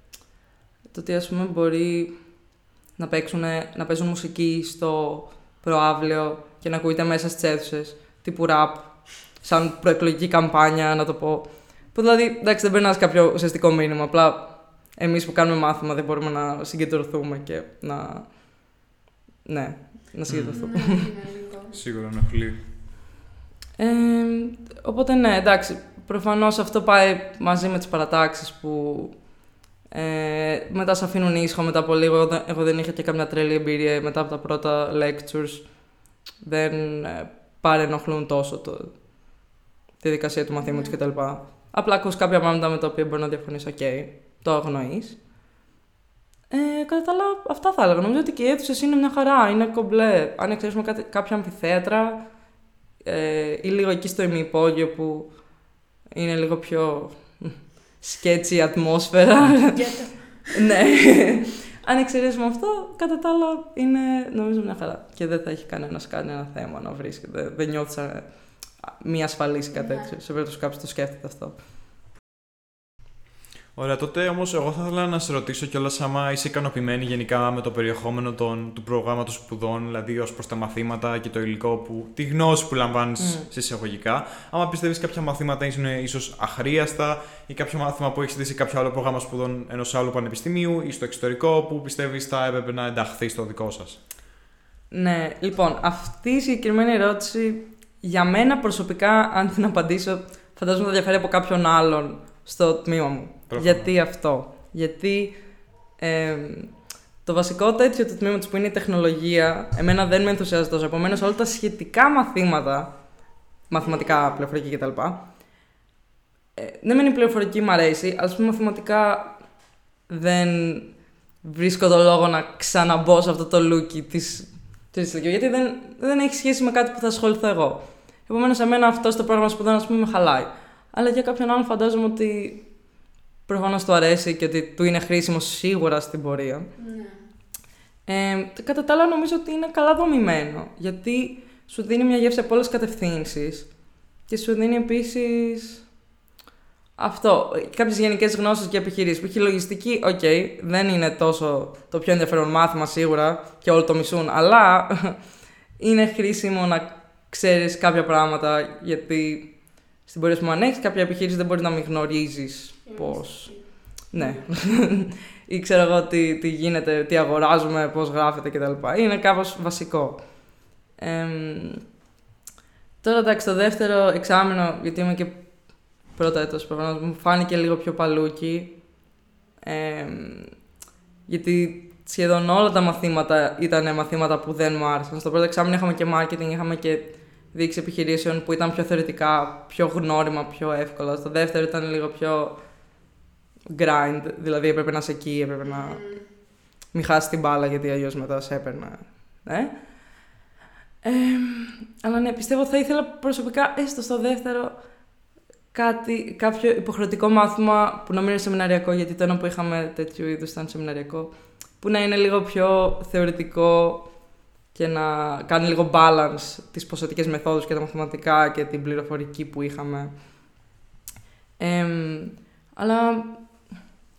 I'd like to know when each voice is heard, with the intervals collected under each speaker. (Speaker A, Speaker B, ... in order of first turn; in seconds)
Speaker A: 0.9-18.7, 19.4-21.1, 23.8-29.3, 29.9-39.0, 40.0-45.2, 46.5-52.4, 53.0-71.5, 83.2-83.5, 94.9-113.0, 113.7-115.2, 116.6-119.5, 120.1-132.8, 133.4-136.7, 138.1-145.9, 147.0-171.8, 173.0-178.9, 179.6-180.6, 181.2-192.8, 193.7-196.3, 196.9-200.3, 201.0-220.1, 221.6-223.7
Speaker B: 20.3-20.6, 21.7-22.6, 73.7-94.0, 103.5-103.9
Speaker C: 20.5-21.8, 40.6-41.0, 59.7-60.7, 69.7-70.1, 113.7-114.4, 136.8-137.2, 162.8-164.4, 195.6-196.3